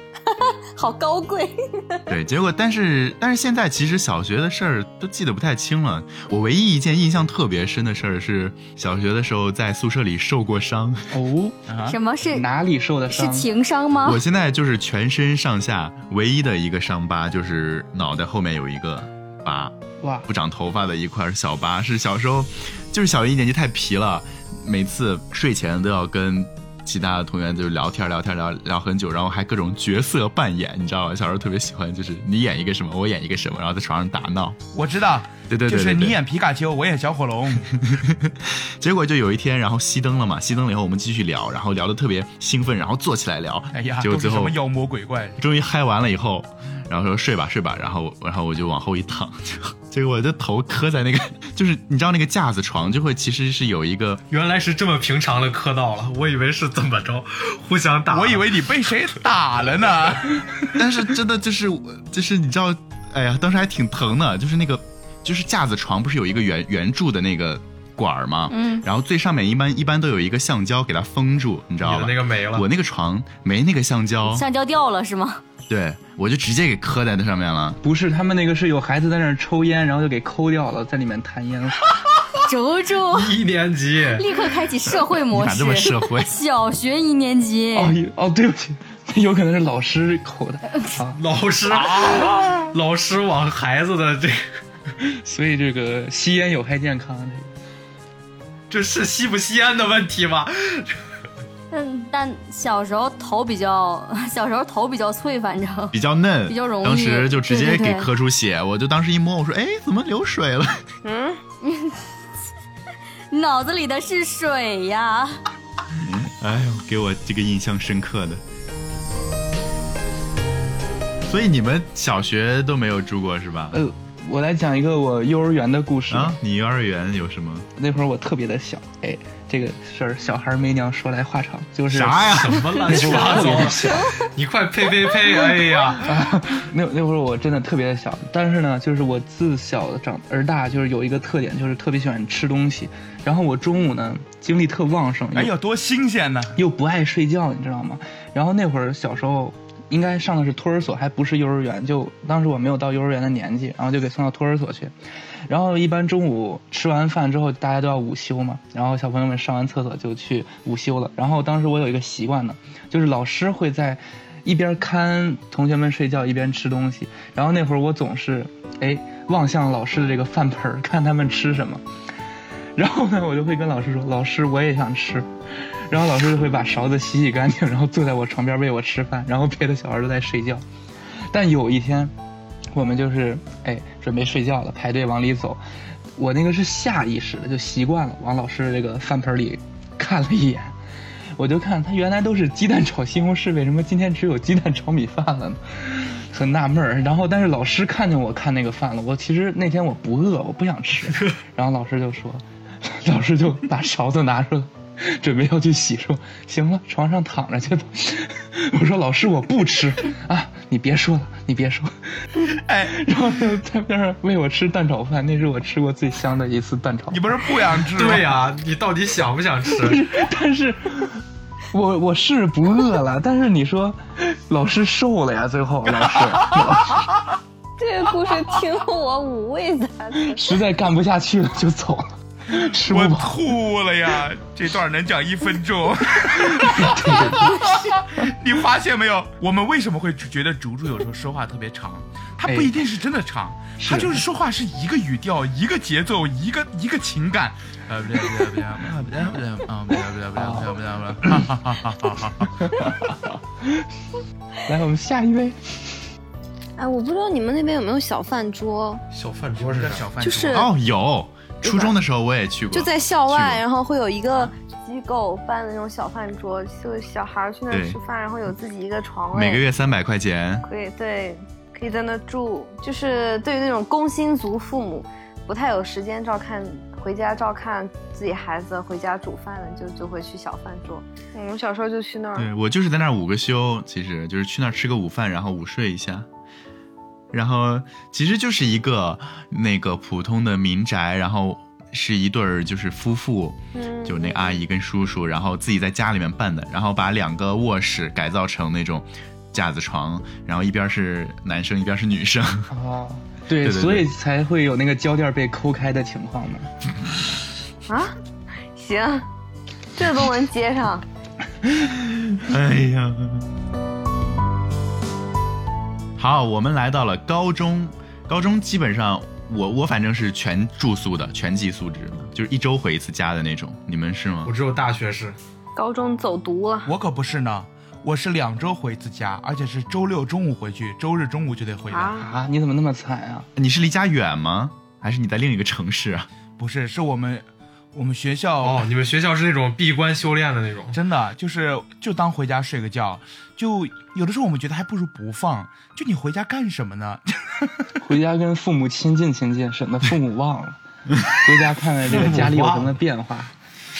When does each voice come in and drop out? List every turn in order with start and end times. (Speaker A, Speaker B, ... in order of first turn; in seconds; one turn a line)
Speaker A: 0.3-2.0
Speaker B: 2.1-11.1
Speaker C: 11.1-11.6
Speaker D: 11.7-12.0
Speaker E: 11.9-12.5
Speaker C: 12.3-13.5
Speaker E: 13.1-14.2
Speaker B: 14.0-19.7
Speaker C: 20.0-20.3
Speaker B: 20.3-34.6
Speaker D: 34.7-37.9
Speaker B: 35.5-36.2
Speaker B: 37.7-44.5
Speaker D: 43.7-45.4
Speaker B: 45.4-54.2
Speaker F: 54.3-58.5
Speaker D: 58.1-60.4
Speaker B: 60.7-74.4
Speaker E: 68.5-68.8
Speaker F: 71.8-72.7
Speaker E: 74.3-75.4
Speaker B: 75.7-77.8
Speaker C: 77.8-81.8
Speaker E: 82.4-83.3
Speaker F: 83.1-84.2
Speaker E: 84.1-88.0
Speaker B: 85.3-86.3
Speaker C: 87.7-91.2
Speaker F: 91.1-94.5
Speaker C: 95.0-97.5
Speaker F: 98.7-100.9
Speaker E: 101.7-108.1
Speaker B: 105.9-110.8
Speaker A: 111.0-111.4
Speaker E: 111.6-112.0
Speaker E: 113.3-115.4
Speaker B: 115.9-118.4
Speaker B: 121.2-123.8
Speaker C: 123.7-126.4
Speaker B: 126.1-127.7
Speaker C: 127.8-134.0
Speaker B: 131.9-133.7
Speaker F: 132.2-136.1
Speaker A: 132.9-134.3
Speaker C: 136.0-145.5
Speaker D: 145.3-146.5
Speaker C: 146.5-154.9
Speaker C: 155.5-171.8
Speaker C: 172.8-180.6
Speaker C: 181.3-182.1
Speaker C: 182.7-185.6
Speaker C: 186.2-190.7
Speaker C: 191.3-212.2
Speaker D: 212.4-213.0
Speaker C: 212.8-217.5
Speaker D: 217.1-218.3
Speaker F: 217.9-220.1
Speaker C: 219.7-221.1
Speaker C: 221.7-227.0
Speaker D: 226.4-227.1
Speaker A: 227.8-230.6
Speaker C: 230.2-233.4
Speaker D: 232.9-252.7
Speaker C: 236.4-237.6
Speaker C: 242.5-242.7
Speaker C: 243.8-244.2
Speaker C: 250.3-250.7
Speaker C: 252.6-253.0
Speaker C: 254.7-255.9
Speaker A: 256.8-259.0
Speaker F: 259.1-260.1
Speaker D: 259.6-260.7
Speaker A: 260.2-260.7
Speaker B: 260.5-263.6
Speaker A: 261.6-261.9
Speaker A: 262.7-269.6
Speaker B: 267.7-268.0
Speaker B: 269.3-270.6
Speaker A: 270.6-282.5
Speaker B: 282.4-286.2
Speaker B: 287.3-302.7
Speaker A: 293.7-294.6
Speaker C: 302.7-306.7
Speaker B: 303.6-304.1
Speaker A: 307.9-308.1
Speaker A: 308.7-309.2
Speaker A: 309.9-311.0
Speaker B: 312.2-313.5
Speaker B: 316.2-324.5
Speaker F: 324.4-325.4
Speaker A: 325.8-326.9
Speaker D: 326.8-332.2
Speaker A: 331.9-332.2
Speaker C: 332.1-333.5
Speaker B: 333.6-336.3
Speaker D: 336.6-338.8
Speaker F: 338.6-341.0
Speaker D: 340.9-347.8
Speaker C: 348.0-350.8
Speaker C: 351.3-353.5
Speaker F: 352.1-352.9